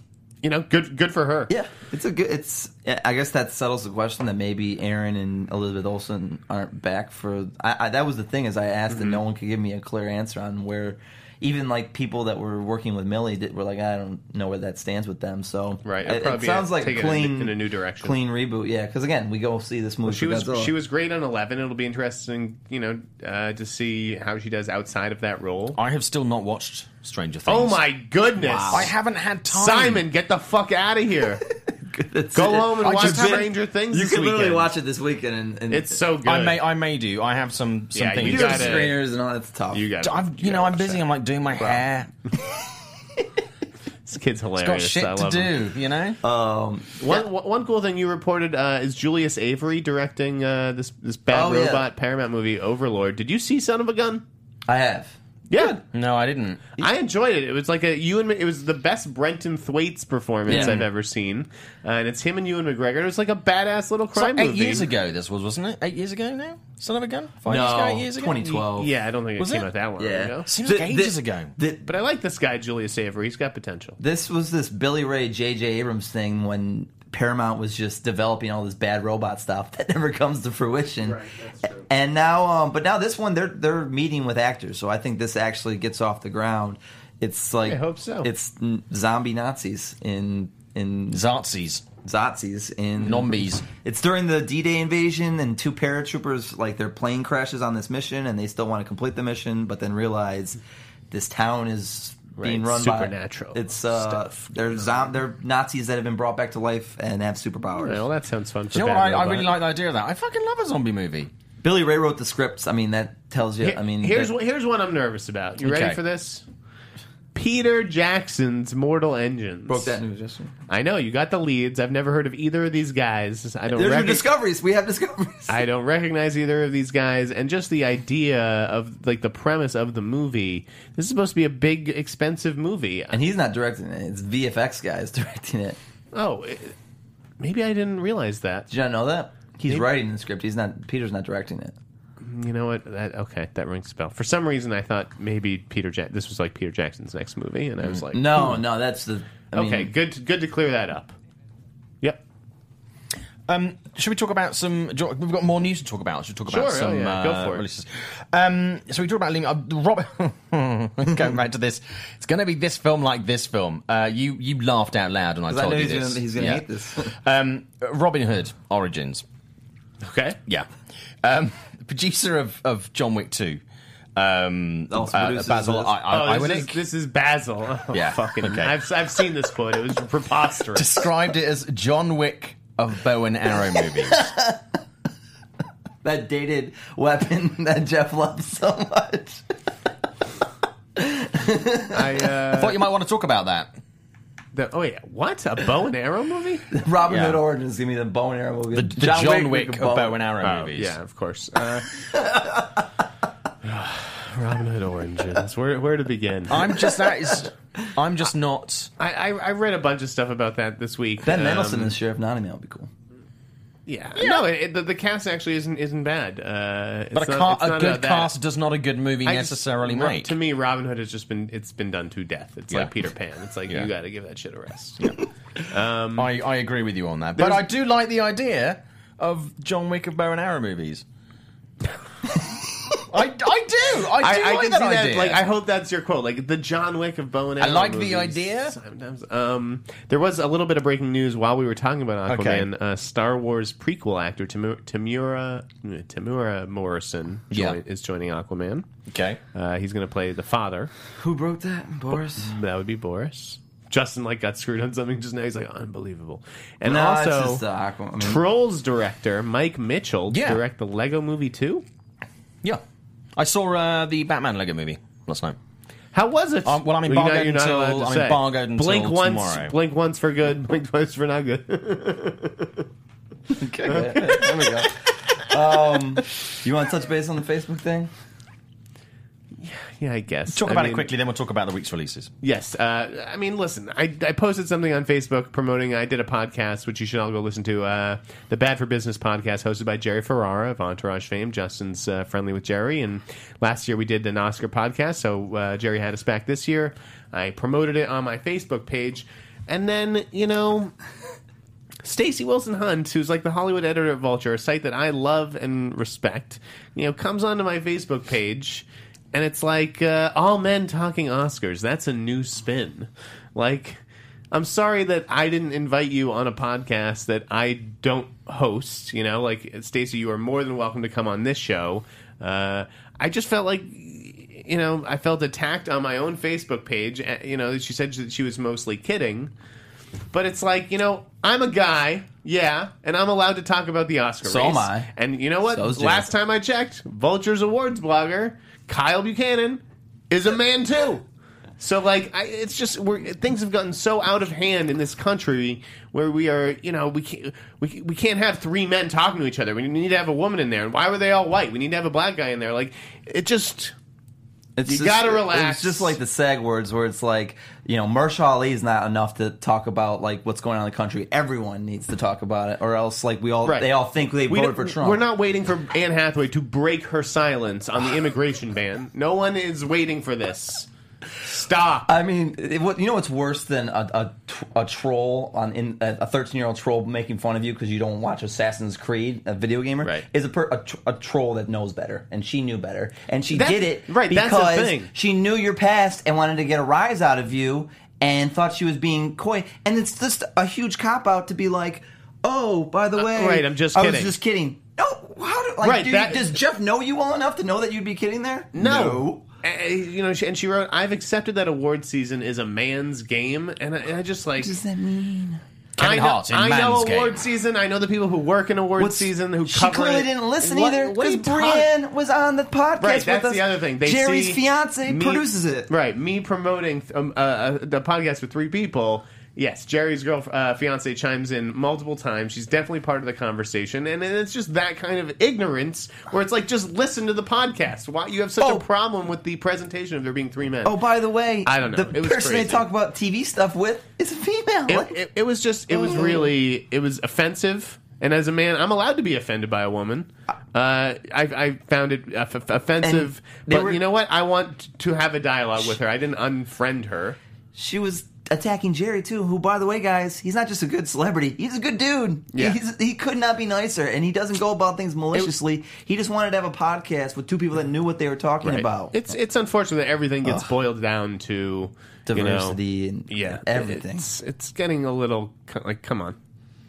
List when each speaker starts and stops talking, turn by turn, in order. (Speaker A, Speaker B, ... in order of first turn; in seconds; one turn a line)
Speaker A: 0.4-1.5
Speaker B: 1.5-20.7
Speaker A: 8.9-9.2
Speaker A: 15.8-18.2
Speaker A: 20.1-25.8
Speaker C: 25.8-27.8
Speaker A: 27.5-28.9
Speaker B: 28.4-28.9
Speaker C: 28.7-30.1
Speaker A: 29.5-31.5
Speaker B: 31.7-36.0
Speaker A: 32.3-34.7
Speaker C: 32.8-33.5
Speaker A: 35.7-36.6
Speaker C: 36.2-38.9
Speaker A: 37.9-39.0
Speaker B: 38.2-39.9
Speaker A: 39.7-41.0
Speaker C: 40.0-42.1
Speaker A: 44.0-45.5
Speaker C: 44.6-46.2
Speaker B: 46.2-47.3
Speaker A: 47.0-54.2
Speaker B: 51.3-51.9
Speaker B: 54.7-55.8
Speaker A: 55.5-55.8
Speaker C: 55.8-56.6
Speaker A: 56.8-64.9
Speaker B: 60.5-60.8
Speaker C: 60.5-60.8
Speaker C: 64.2-68.6
Speaker B: 67.5-68.9
Speaker A: 68.5-70.5
Speaker C: 69.4-69.7
Speaker B: 70.0-71.8
Speaker C: 70.5-71.5
Speaker A: 71.8-74.0
Speaker B: 74.0-81.2
Speaker A: 81.0-81.9
Speaker B: 81.8-91.2
Speaker A: 87.7-88.3
Speaker C: 91.1-91.8
Speaker B: 92.0-100.6
Speaker C: 93.0-93.7
Speaker B: 101.1-108.0
Speaker A: 102.4-104.2
Speaker A: 107.8-109.5
Speaker C: 108.7-111.3
Speaker B: 111.6-114.3
Speaker A: 113.6-116.5
Speaker C: 115.6-116.0
Speaker A: 117.3-120.0
Speaker B: 119.7-120.5
Speaker A: 120.7-124.3
Speaker B: 123.7-125.6
Speaker A: 125.5-133.2
Speaker B: 133.1-135.8
Speaker A: 136.1-136.8
Speaker A: 137.4-138.7
Speaker B: 138.7-141.8
Speaker A: 142.2-148.6
Speaker B: 148.1-149.9
Speaker A: 149.5-151.2
Speaker C: 153.5-169.2
Speaker A: 156.5-157.6
Speaker B: 165.5-167.1
Speaker A: 170.0-170.4
Speaker C: 171.2-173.6
Speaker C: 174.2-176.8
Speaker B: 174.9-175.9
Speaker A: 176.1-181.1
Speaker C: 177.9-178.7
Speaker C: 180.8-184.3
Speaker B: 183.6-184.6
Speaker B: 186.0-189.4
Speaker B: 190.9-192.3
Speaker A: 191.9-192.8
Speaker C: 192.5-193.7
Speaker A: 194.5-196.7
Speaker B: 196.7-200.2
Speaker C: 197.1-197.4
Speaker C: 198.7-201.0
Speaker A: 200.4-201.9
Speaker B: 201.9-202.8
Speaker A: 203.6-206.6
Speaker C: 206.5-208.9
Speaker A: 209.0-211.9
Speaker B: 211.2-212.9
Speaker A: 213.9-218.3
Speaker C: 217.1-220.3
Speaker A: 219.3-225.1
Speaker A: 225.7-226.3
Speaker C: 226.2-231.0
Speaker A: 227.4-227.6
Speaker C: 233.0-235.4
Speaker A: 234.2-248.9
Speaker C: 237.6-238.8
Speaker C: 242.3-242.7
Speaker C: 247.5-247.8
Speaker C: 249.1-249.4
Speaker A: 249.5-250.9
Speaker B: 251.2-252.5
Speaker A: 252.3-257.6
Speaker B: 256.8-258.4
Speaker A: 258.2-261.9
Speaker C: 260.3-260.6
Speaker C: 263.4-265.6
Speaker A: 266.1-272.9
Speaker C: 266.6-269.7
Speaker B: 273.5-278.1
Speaker A: 273.9-274.9
Speaker A: 279.6-281.1
Speaker C: 280.5-282.3
Speaker A: 282.4-300.9
Speaker A: 302.0-329.5
Speaker A: 330.3-341.2
Speaker B: 334.4-335.1
Speaker B: 335.7-336.3
Speaker A: 341.8-353.9
Speaker B: 354.8-365.2
Speaker A: 354.9-356.2
Speaker A: 363.6-363.9
Speaker A: 364.5-370.9
Speaker A: 371.4-372.1
Speaker B: 372.1-399.4
Speaker A: 383.5-385.1
Speaker A: 393.2-394.4
Speaker A: 395.8-396.5
Speaker A: 398.8-404.8
Speaker B: 404.6-405.6
Speaker C: 406.0-407.4
Speaker A: 406.0-411.9
Speaker B: 409.0-415.9
Speaker A: 413.0-431.0
Speaker B: 430.9-435.2
Speaker A: 431.6-432.9
Speaker A: 434.9-447.4
Speaker B: 435.9-436.5
Speaker B: 443.0-444.0
Speaker B: 447.8-459.2
Speaker A: 452.5-452.8
Speaker A: 458.6-462.8
Speaker B: 460.4-460.7
Speaker B: 462.3-464.3
Speaker A: 463.3-466.4